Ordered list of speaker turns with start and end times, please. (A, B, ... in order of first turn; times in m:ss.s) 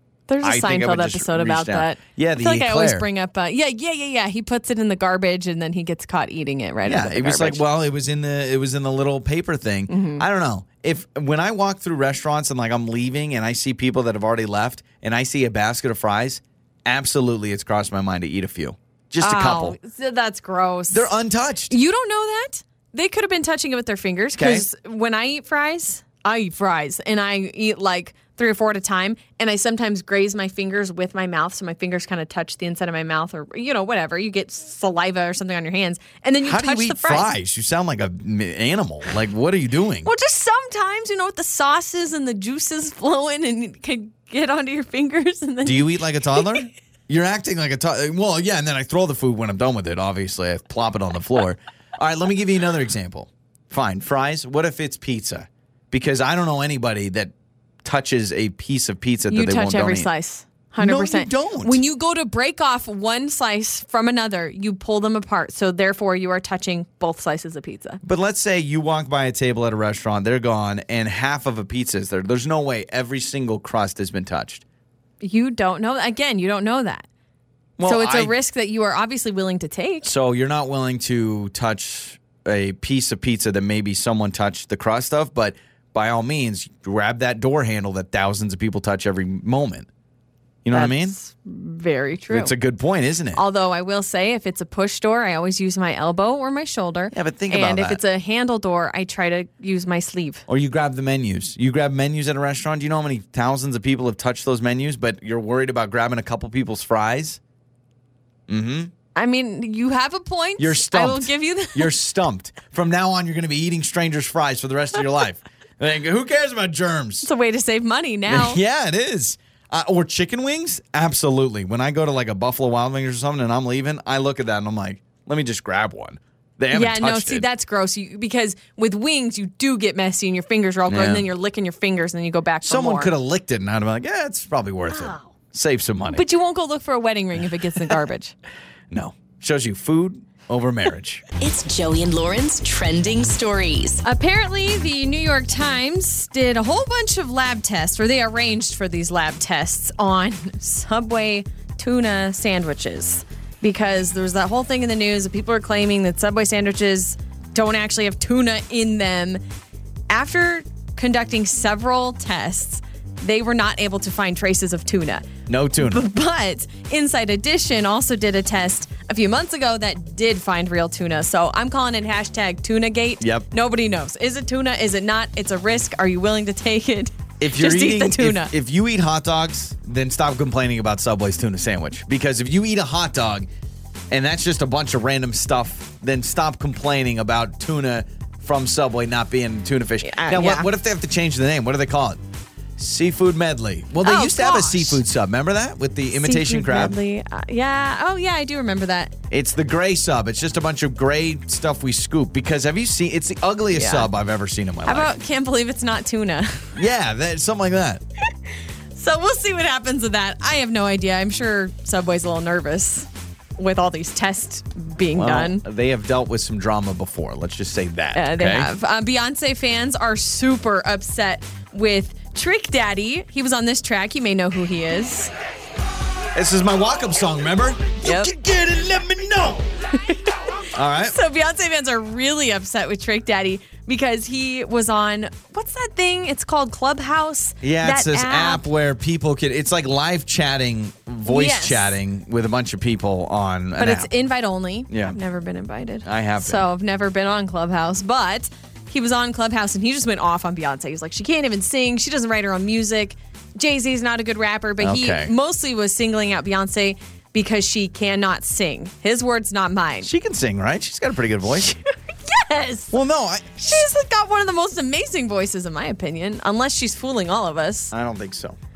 0:00.3-0:07.6 A
0:00.4-0:03.1 B
0:06.8-0:19.8 B
0:09.9-0:10.2 A
0:19.2-0:21.1 A
0:20.9-0:21.7 B
0:21.7-0:37.3 A
0:24.3-0:24.7 B
0:36.4-0:40.1 B
0:40.0-0:46.7 A
0:45.6-0:57.3 B
0:57.8-1:00.1 B
0:59.3-1:08.0 A
1:00.8-1:01.8 B
1:08.0-1:14.6 B
1:15.2-1:17.1 A
1:17.8-1:18.3 B
1:17.8-1:20.1 A
1:20.0-1:29.9 B
1:30.6-1:31.2 B
1:30.7-1:32.5 A
1:32.3-1:33.4 B
1:33.4-1:40.5 A
1:37.1-1:38.0 B
1:40.5-1:47.4 B
1:48.5-1:48.9 B
1:49.2-1:51.9 A
1:50.6-1:57.3 B
1:57.2-1:58.6 A
1:58.3-2:07.5 B
2:06.7-2:13.1 A
2:10.9-2:11.3 B
2:12.6-2:16.3 B
2:14.8-2:15.3 A
2:16.1-2:18.3 A
2:18.9-2:21.2 B
2:21.4-2:24.0 C
2:24.0-2:39.4 A
2:40.1-2:58.5 A
2:45.5-2:46.0 B
2:53.2-2:53.5 B
2:57.4-3:03.5 B
3:04.1-3:12.2 B
3:10.0-3:10.7 A
3:12.8-3:17.0 B
3:14.0-3:15.0 A
3:16.2-3:19.1 A
3:19.3-3:25.1 B
3:23.7-3:24.1 A
3:24.8-3:26.8 A
3:26.8-3:28.0 B
3:28.9-3:35.6 A
3:35.2-3:38.7 B
3:38.2-3:45.3 A
3:46.3-3:49.7 B
3:48.0-3:48.3 A
3:49.9-3:50.5 A
3:50.7-3:51.2 B
3:51.1-3:58.7 A
3:57.6-4:04.1 B
4:01.3-4:02.0 A
4:03.8-4:20.1 A
4:04.9-4:05.2 B
4:06.0-4:06.7 B
4:14.8-4:15.3 B
4:20.0-4:21.8 B
4:22.3-4:23.0 A
4:22.9-4:23.9 B
4:23.6-4:27.9 A
4:27.9-4:28.6 B